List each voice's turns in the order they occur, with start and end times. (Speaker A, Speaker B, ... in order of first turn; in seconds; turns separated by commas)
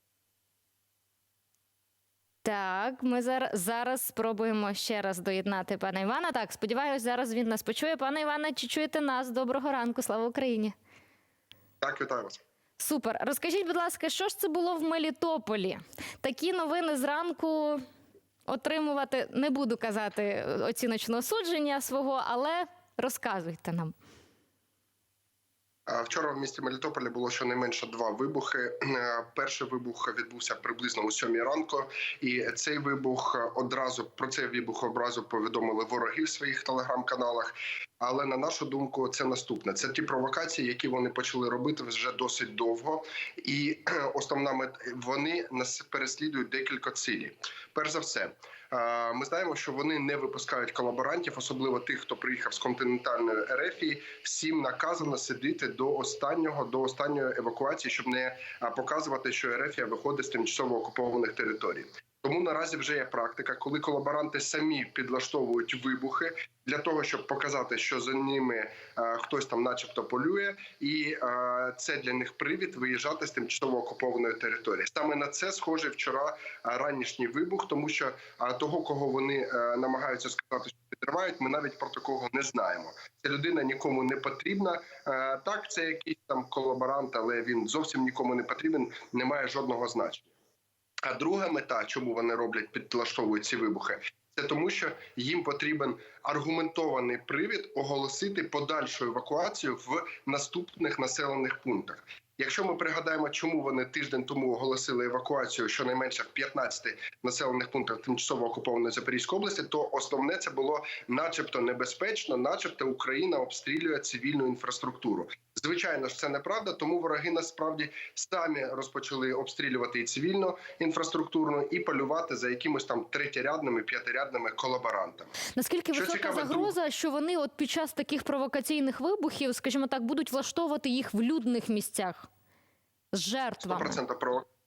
Speaker A: 2.4-10.7, Speaker B: 11.8-12.4, Speaker A: 12.8-17.8, Speaker A: 18.5-23.9, Speaker B: 25.9-90.3, Speaker B: 91.0-125.3, Speaker A: 125.5-132.3, Speaker B: 125.9-126.7, Speaker A: 133.1-134.0, Speaker B: 133.6-134.5